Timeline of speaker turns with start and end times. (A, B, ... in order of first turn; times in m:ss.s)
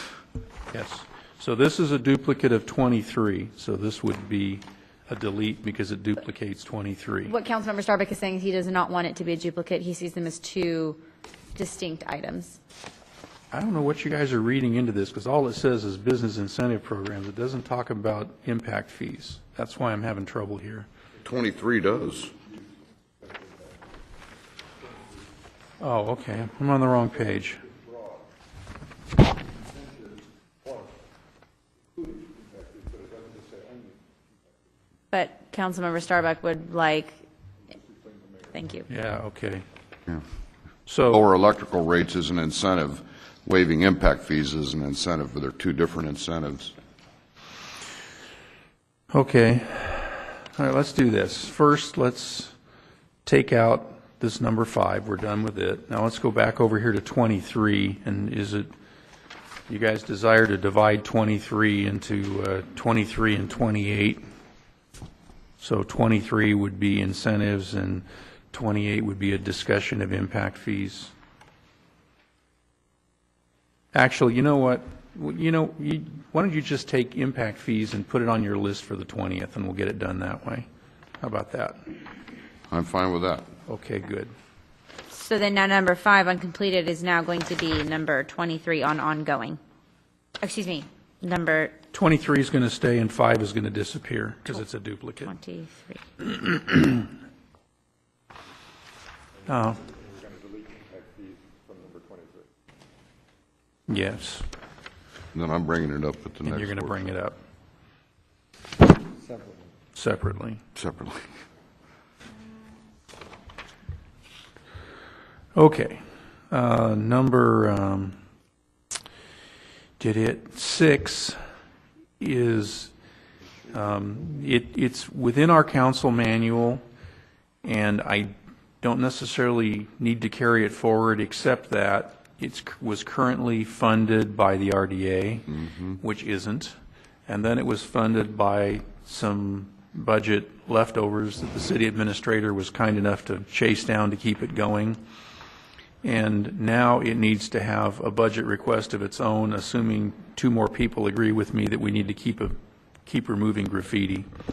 0:00.7-0:07.3 A
0:07.3-0:11.0 B
0:11.6-0:12.6 B
0:13.5-0:20.9 A
0:21.2-0:22.3 C
0:25.8-0:27.6 A
0:35.1-0:37.2 B
0:38.5-0:38.9 B
0:38.9-0:39.6 A
0:40.9-0:41.3 A
0:41.1-0:46.7 C
0:49.1-0:52.5 A
0:53.2-0:58.7 A
0:59.7-1:04.2 A
1:05.6-1:11.1 A
1:13.9-1:20.7 A
1:21.2-1:21.8 A
1:22.7-1:23.5 C
1:23.7-1:24.3 A
1:25.1-1:29.6 B
1:30.4-1:31.8 B
1:31.9-1:35.3 A
1:35.2-1:36.0 B
1:39.5-1:39.8 A
1:43.9-1:44.5 A
1:45.3-1:47.1 C
1:46.5-1:47.4 A
1:50.0-1:50.6 A
1:50.8-1:51.3 C
1:55.5-1:58.2 A
2:00.0-2:01.4 A
2:02.2-2:02.9 A
2:03.7-2:06.8 A
2:07.6-2:16.8 A
2:15.5-2:15.9 C
2:17.3-2:25.0 A
2:26.0-2:34.3 A